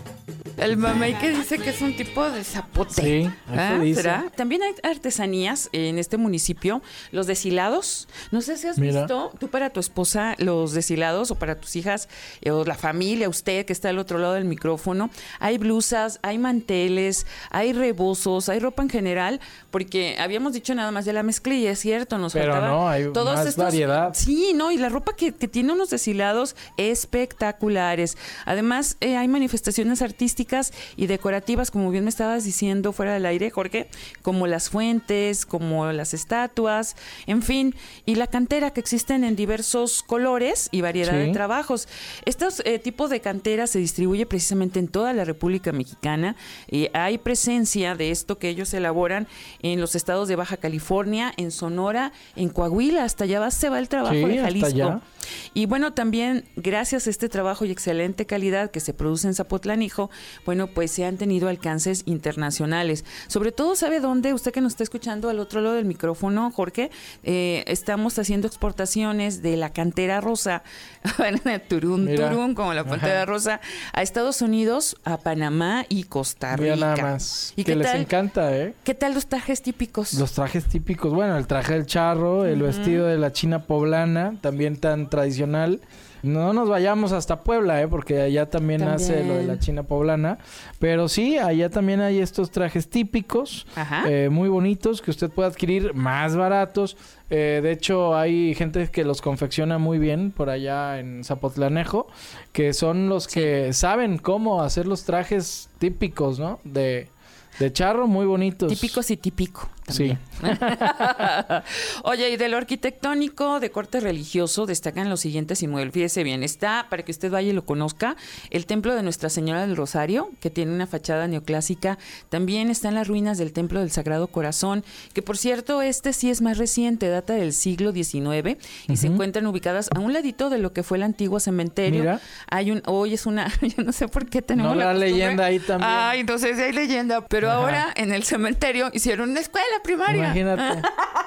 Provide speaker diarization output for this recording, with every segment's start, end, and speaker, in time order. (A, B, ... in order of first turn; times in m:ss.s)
0:00.6-0:55.0 A
0:02.9-0:04.2 B
0:08.8-0:09.1 B
0:22.3-0:24.2 B
0:41.0-0:41.4 B
0:54.0-0:55.0 B
0:55.5-1:18.1 A
1:12.0-1:13.2 B
1:16.5-1:18.7 B
1:18.8-1:20.2 A
1:20.1-1:49.0 B
1:22.4-1:23.0 A
1:28.8-1:29.6 A
1:33.8-1:34.1 A
1:48.7-2:20.8 A
1:49.9-1:51.2 B
2:08.9-2:09.2 B
2:11.8-2:12.2 B
2:14.5-2:16.1 B
2:17.4-2:17.8 B
2:20.1-2:20.9 B